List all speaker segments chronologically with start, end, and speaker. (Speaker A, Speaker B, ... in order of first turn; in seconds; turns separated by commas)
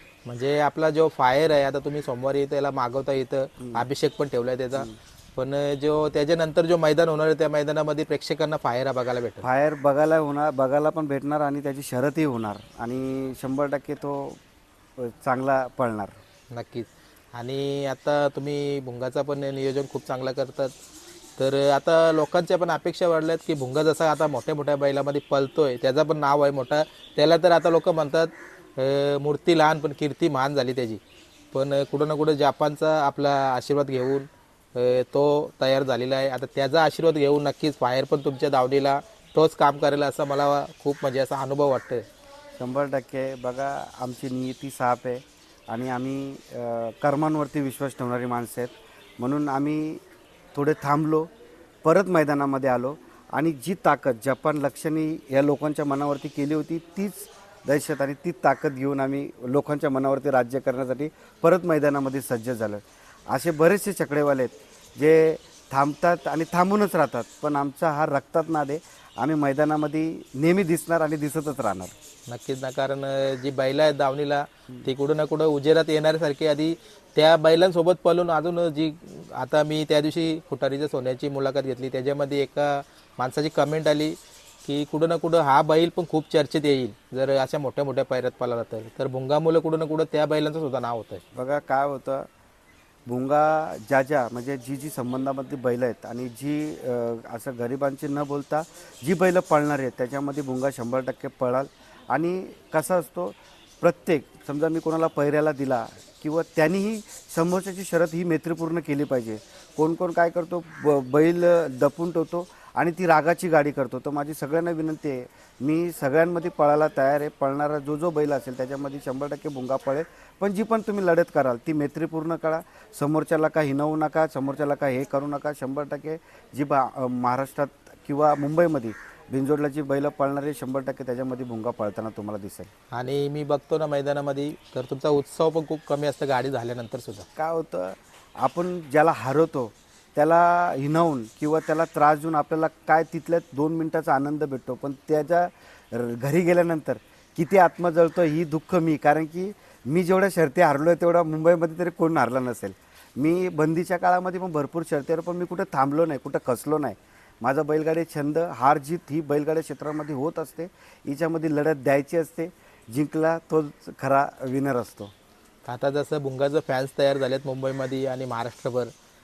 Speaker A: 0.3-9.4, Speaker B: 3.6-3.8, Speaker B: 9.4-14.4, Speaker B: 15.0-16.1, Speaker A: 16.5-20.7, Speaker A: 21.4-31.0, Speaker A: 31.5-42.0, Speaker B: 42.6-50.0, Speaker B: 50.5-51.3, Speaker B: 51.8-71.9, Speaker A: 72.3-91.2, Speaker B: 91.3-92.3, Speaker B: 93.0-132.7, Speaker A: 132.9-137.3, Speaker B: 137.3-165.1, Speaker A: 165.7-168.9